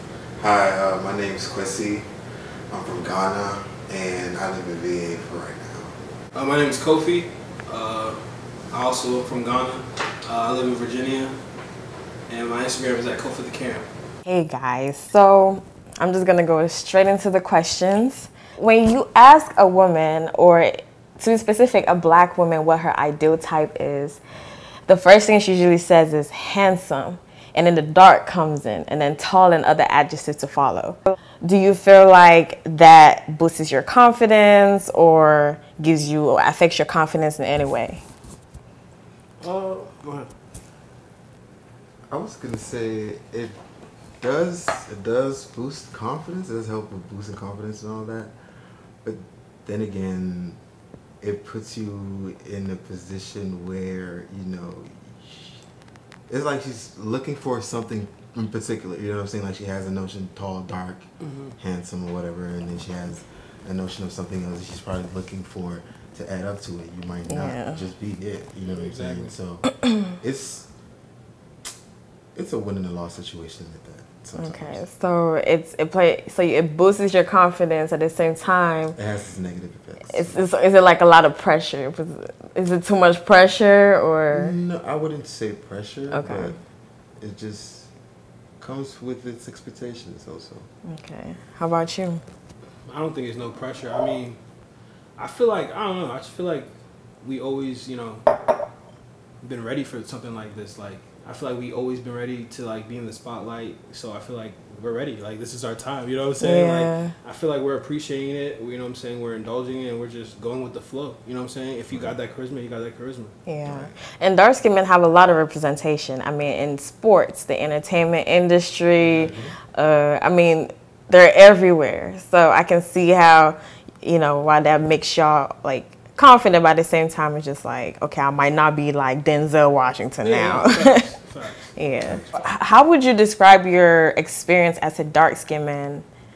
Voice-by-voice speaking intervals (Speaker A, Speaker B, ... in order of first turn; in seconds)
Speaker A: 0.4-2.1, 2.7-6.0, 42.1-43.6, 44.2-48.3, 49.0-50.6, 51.2-55.6, 56.3-61.0, 61.6-70.7, 72.3-74.8, 79.0-80.4, 84.3-86.6, 87.2-87.9, 88.6-90.7, 111.9-112.2, 113.6-114.0, 119.0-119.5
Speaker B: 6.3-8.2, 8.7-11.4, 12.3-13.9, 39.4-40.3, 61.2-61.5, 68.7-69.3, 92.9-94.4, 95.2-96.7, 97.2-98.2, 99.4-113.3, 130.2-132.5
Speaker C: 14.2-24.2, 24.9-38.0, 67.3-67.8, 74.3-79.0, 80.1-84.6, 86.1-86.5, 90.8-92.2, 106.4-107.1, 113.5-131.1, 131.8-136.0